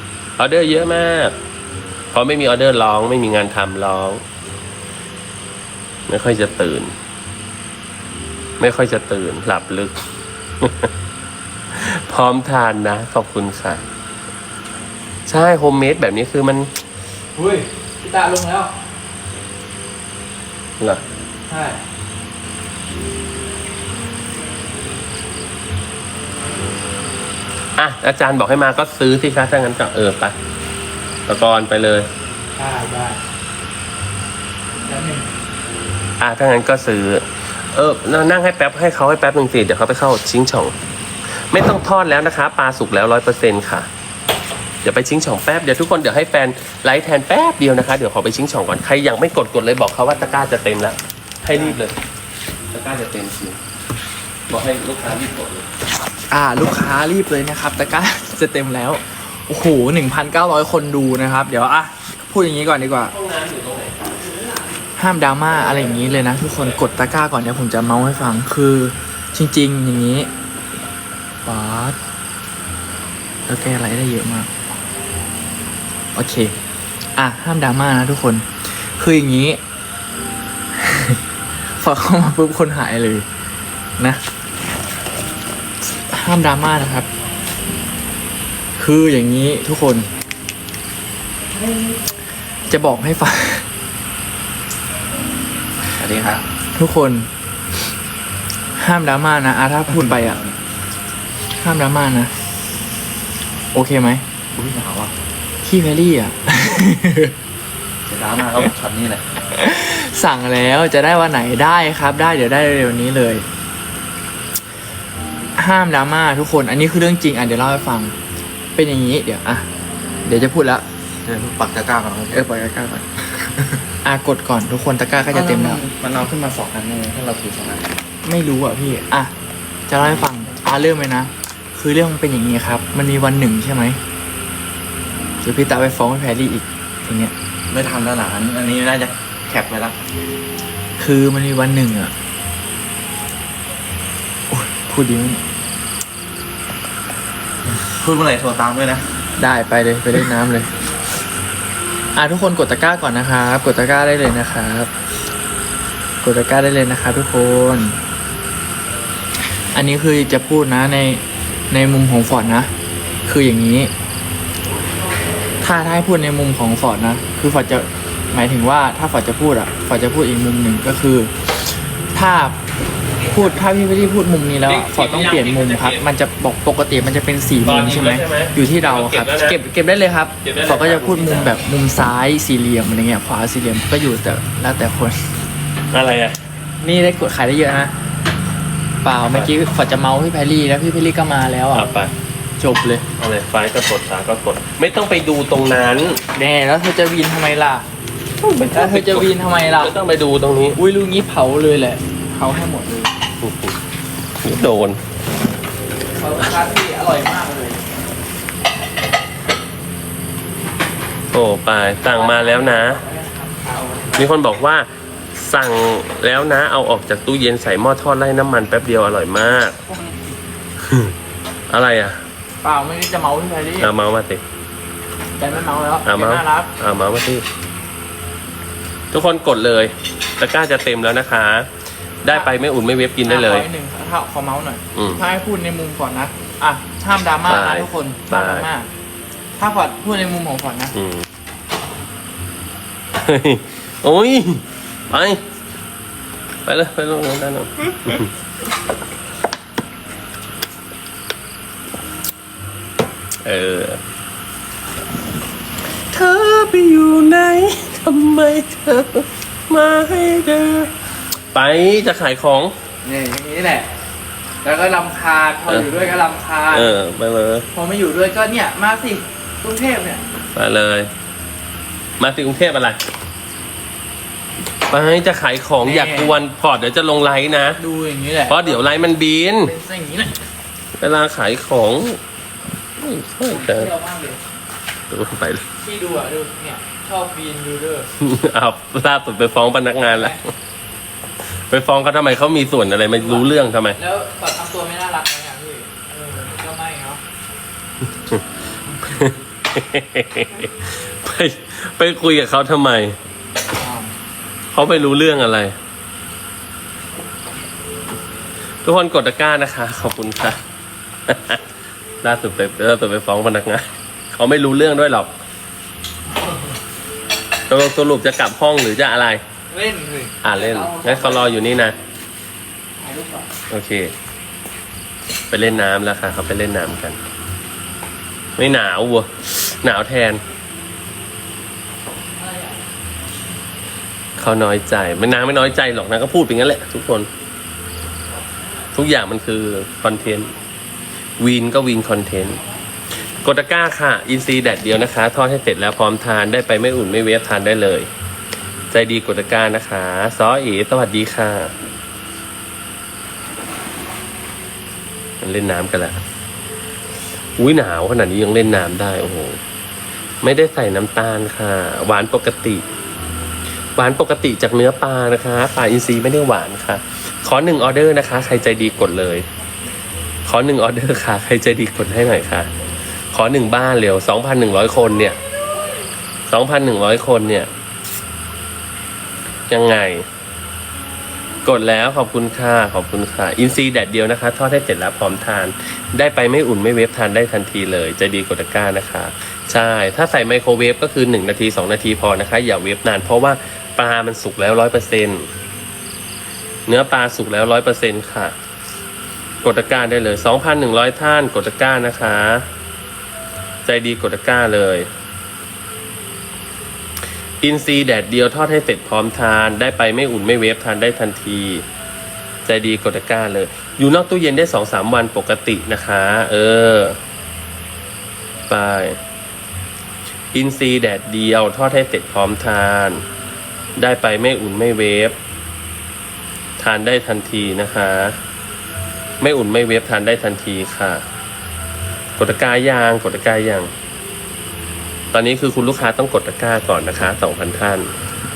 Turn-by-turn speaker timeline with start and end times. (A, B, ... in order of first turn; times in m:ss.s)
0:00.4-0:01.4 A
0:02.1-0:04.2 A
0:06.1-0:06.9 A
0:08.6-0:10.0 A
0:10.6-0:10.9 A
0:11.7-0:13.8 A
0:15.3-0:16.7 A
0:17.4-0:18.7 B
0:21.5-0:21.8 B
0:27.8-0:30.4 A
0:31.3-0:32.1 A
0:32.6-0:33.2 B
0:34.9-0:35.3 B
0:36.2-0:40.8 A
0:41.3-0:43.9 A
0:44.8-0:52.0 A
0:52.7-0:53.6 A
0:54.5-0:55.7 A
0:56.3-1:03.1 B
1:03.0-1:04.1 A
1:05.0-1:10.3 B
1:11.5-1:12.0 B
1:13.5-1:14.5 B
1:16.2-1:16.6 B
1:17.2-1:19.6 B
1:20.8-1:21.2 B
1:21.8-1:23.3 B
1:25.8-1:27.1 B
1:28.8-1:30.1 B
1:32.7-1:33.7 B
1:36.0-1:36.4 C
1:36.8-1:37.3 B
1:38.8-1:40.4 B
1:40.0-1:40.5 C
1:41.6-1:42.3 B
1:43.7-1:44.2 B
1:44.6-1:45.1 C
1:45.6-1:47.3 B
1:48.1-1:49.2 C
1:49.5-1:53.4 B
1:55.6-1:58.1 B
1:58.8-1:59.7 B
2:00.2-2:00.8 B
2:01.2-2:02.5 C
2:02.3-2:03.3 B
2:04.0-2:05.8 B
2:05.3-2:07.9 C
2:08.2-2:09.3 B
2:09.9-2:14.0 B
2:10.0-2:10.3 C
2:15.4-2:17.3 B
2:17.7-2:20.0 C
2:21.0-2:22.1 B
2:24.5-2:25.4 B
2:27.7-2:29.1 C
2:29.4-2:30.7 B
2:32.2-2:34.9 B
2:36.2-2:38.0 B
2:39.7-2:42.7 B
2:43.3-2:43.9 B
2:45.6-2:51.3 B
2:52.1-2:52.6 B
2:53.3-3:05.2 B
2:54.6-2:56.0 A
2:57.6-2:59.6 A
3:00.4-3:01.5 A
3:05.9-3:06.4 A
3:06.8-3:07.9 B
3:09.0-3:11.9 B
3:11.7-3:12.1 A
3:12.6-3:13.0 B
3:13.2-3:16.2 A
3:16.3-3:17.9 B
3:18.4-3:20.8 A
3:18.6-3:19.9 B
3:20.8-3:23.1 B
3:23.4-3:23.8 A
3:24.4-3:25.0 A
3:26.2-3:27.8 B
3:31.3-3:33.0 A
3:32.1-3:34.3 B
3:34.2-3:39.8 A
3:39.9-3:40.3 B
3:40.8-3:41.1 A
3:41.7-3:42.2 A
3:42.6-3:43.9 B
3:43.8-3:44.4 A
3:45.4-3:46.7 B
3:46.0-3:47.4 A
3:49.1-3:51.7 A
3:52.2-3:53.7 A
3:53.2-3:58.9 B
3:54.9-3:55.2 A
3:57.5-3:58.7 A
3:59.6-4:01.0 B
4:00.9-4:01.3 A
4:03.2-4:05.4 A
4:06.7-4:08.3 A
4:13.4-4:14.0 A
4:16.1-4:20.9 A
4:21.5-4:22.7 A
4:23.0-4:23.9 B
4:24.6-4:27.0 B
4:25.7-4:26.1 A
4:26.7-4:27.7 A
4:27.7-4:30.2 B
4:30.6-4:31.1 A
4:32.2-4:33.0 A
4:34.9-4:37.8 A
4:35.8-4:36.4 B
4:37.8-4:38.9 B
4:38.5-4:39.7 A
4:39.6-4:40.4 B
4:41.0-4:42.2 A
4:43.0-4:43.9 A
4:43.5-4:44.4 B
4:45.1-4:45.6 A
4:45.8-4:48.1 B
4:48.2-4:50.4 A
4:50.0-4:50.4 B
4:51.5-4:54.0 A
4:53.2-4:57.2 B
4:58.2-4:58.4 A
4:59.0-5:03.2 A
5:03.8-5:04.1 B
5:04.7-5:05.8 A
5:08.8-5:10.6 A
5:11.3-5:11.6 A
5:12.2-5:15.3 A
5:17.7-5:19.4 A
5:19.7-5:21.6 B
5:20.4-5:22.0 A
5:23.0-5:23.5 B
5:23.7-5:24.1 A
5:25.5-5:27.2 A
5:28.6-5:30.4 A
5:32.4-5:32.7 B
5:34.4-5:37.3 A
5:39.0-5:40.5 A
5:41.4-5:42.6 A
5:43.4-5:48.1 A
5:48.9-5:51.7 A
5:55.4-5:56.2 A
5:57.6-5:59.6 A
6:00.4-6:02.8 A
6:04.0-6:09.5 A
6:10.4-6:12.7 A
6:13.3-6:15.4 A
6:16.5-6:17.7 A
6:19.7-6:20.2 A
6:21.6-6:35.5 A
6:36.9-6:38.5 A
6:39.6-6:42.7 A
6:43.9-6:45.1 A
6:47.6-6:51.8 A
6:52.7-6:57.2 A
6:58.7-6:59.2 A
7:00.5-7:03.2 A
7:04.0-7:05.4 A
7:06.8-7:08.4 A
7:09.4-7:11.2 A
7:12.4-7:13.9 A
7:15.3-7:18.1 A